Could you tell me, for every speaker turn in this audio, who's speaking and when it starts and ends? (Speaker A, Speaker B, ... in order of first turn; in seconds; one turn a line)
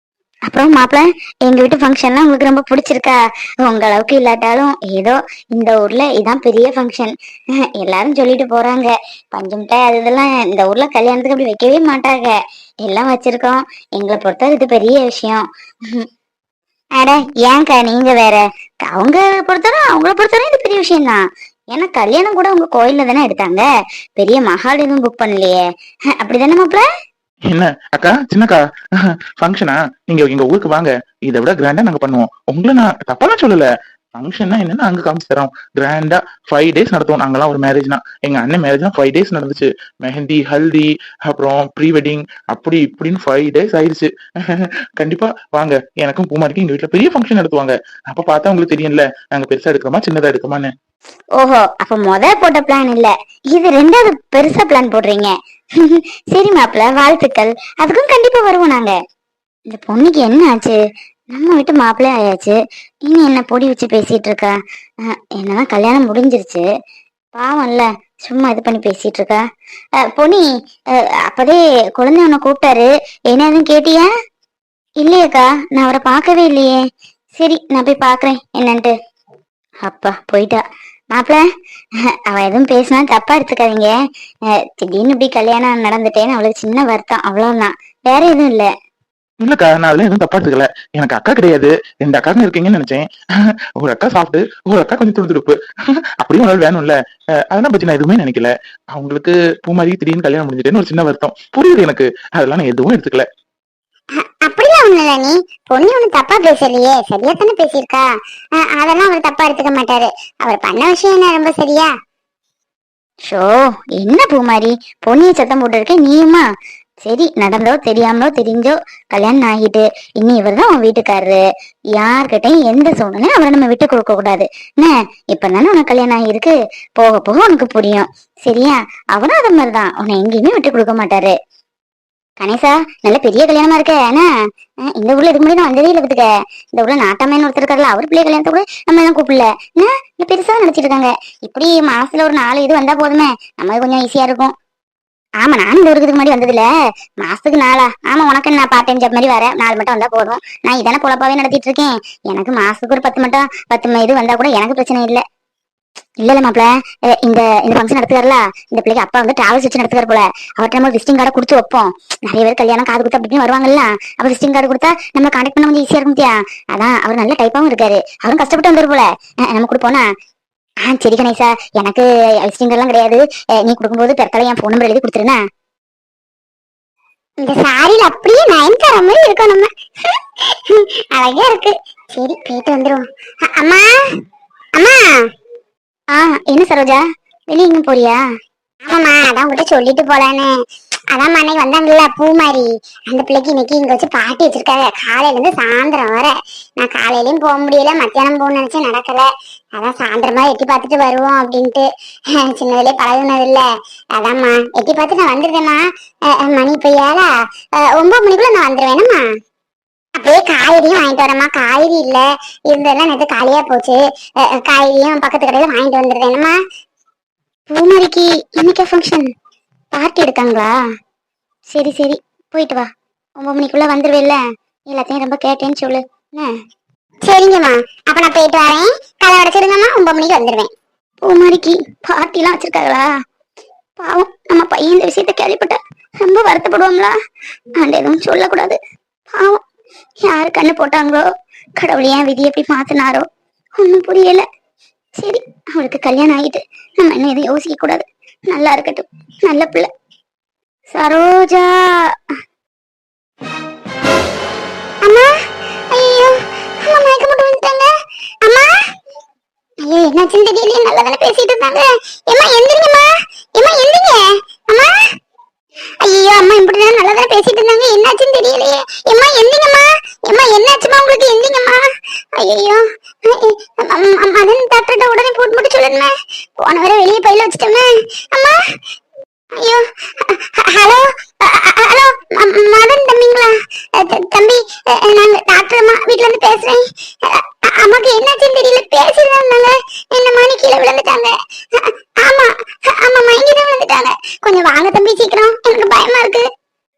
Speaker A: 0.5-7.1
Speaker A: 7.6-16.1
Speaker A: 17.0-23.6
Speaker A: 24.2-25.6
Speaker A: 26.2-26.8
Speaker B: 27.5-28.6
Speaker B: 29.4-33.6
Speaker B: 34.2-50.7
Speaker A: 51.4-59.0
Speaker A: 59.7-60.8
Speaker A: 61.3-66.6
Speaker A: 67.3-69.4
Speaker A: 70.1-70.4
Speaker A: 71.3-74.1
Speaker A: 75.0-76.8
Speaker A: 77.4-78.9
Speaker A: 79.8-81.4
Speaker A: 82.3-83.9
Speaker A: 84.5-88.7
Speaker B: 89.4-93.0
Speaker B: 93.8-95.5
Speaker B: 96.2-97.0
Speaker B: 97.5-103.2
Speaker C: 104.4-108.0
Speaker C: 108.6-111.9
Speaker A: 113.3-116.4
Speaker A: 117.0-121.4
Speaker A: 121.9-131.3
Speaker A: 132.4-134.2
Speaker A: 134.9-144.5
Speaker A: 145.4-146.7
Speaker A: 147.2-155.2
Speaker A: 156.2-156.7
Speaker A: 157.2-170.1
Speaker A: 170.8-175.4
Speaker C: 177.4-183.9
Speaker C: 184.8-185.2
Speaker A: 186.1-188.2
Speaker C: 188.8-190.5
Speaker C: 191.1-209.2
Speaker C: 210.2-216.6
Speaker A: 217.7-219.3
Speaker A: 219.9-220.7
Speaker A: 221.7-224.4
Speaker A: 224.9-226.5
Speaker C: 227.2-230.7
Speaker A: 231.2-233.1
Speaker A: 234.0-237.1
Speaker A: 237.8-238.8
Speaker A: 239.3-239.6
Speaker A: 240.2-241.2
Speaker A: 241.8-243.2
Speaker A: 243.8-244.4
Speaker A: 245.2-249.9
Speaker A: 250.9-251.9
Speaker C: 255.0-255.3
Speaker C: 255.9-257.9
Speaker C: 258.4-258.7
Speaker C: 259.8-264.9
Speaker C: 266.0-271.8
Speaker C: 272.4-278.6
Speaker C: 279.6-296.5